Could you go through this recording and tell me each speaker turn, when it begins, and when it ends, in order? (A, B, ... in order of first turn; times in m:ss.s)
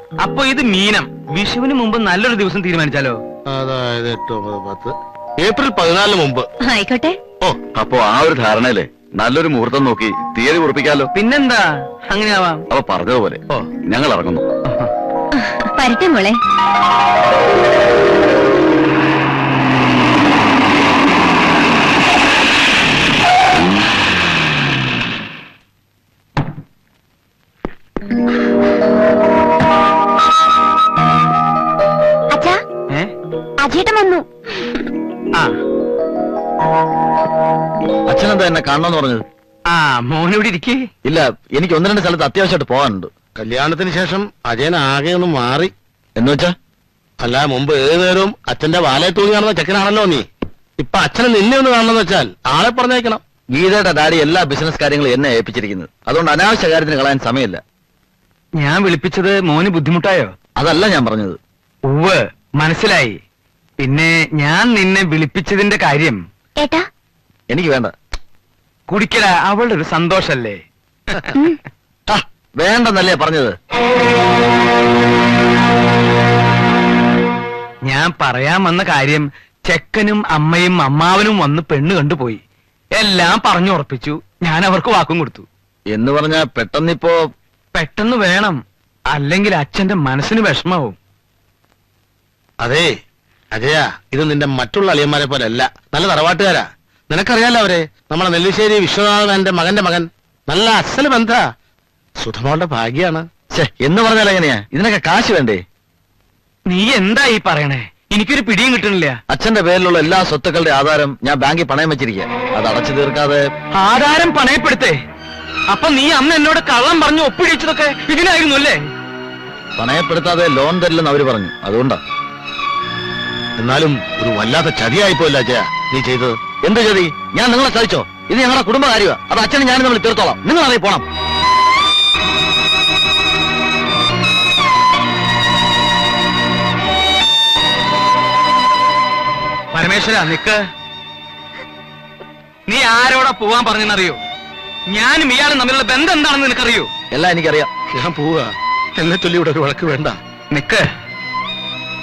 0:00.2-0:03.2 A
0:03.5-0:06.5 B
0:06.6-0:07.2 C
0:07.8-0:11.0 D
0:11.2-0:12.6 A
0:12.7-0:14.4 D
0:15.4-0:16.4 C
0:32.3-0:32.6 C
0:33.6-0:34.2 C
0:38.1-0:39.2 D
0:39.7-0:40.8 A
0:41.0-0:43.1 D
0:43.4-0:45.7 B
0:46.2-0:46.5 D
0:47.2-0:50.2 B
0:50.8-0:53.2 B
0:53.5-0:57.6 D
0:58.6-1:00.3 A
1:00.6-1:01.4 D
1:01.9-1:03.2 A
1:03.8-1:06.2 A
1:06.6-1:06.9 C
1:07.5-1:07.9 D
1:08.9-1:11.3 A
1:12.1-1:13.6 D
1:17.9-1:22.4 A
1:23.0-1:25.5 A
1:25.9-1:27.2 D
1:27.7-1:28.6 A
1:29.1-1:31.0 A
1:32.6-1:32.9 B
1:33.5-1:41.4 B
1:42.2-1:43.3 B
1:43.5-1:45.6 D
1:46.7-1:49.2 A
1:49.3-1:53.4 D
1:53.8-1:55.0 A
1:55.7-1:58.8 A
1:59.8-2:02.0 D
2:03.6-2:06.4 B
2:06.6-2:11.0 D
2:19.7-2:20.6 A
2:22.7-2:24.2 A
2:24.9-2:26.9 A
2:27.1-2:27.7 D
2:27.9-2:30.2 B
2:30.5-2:30.9 A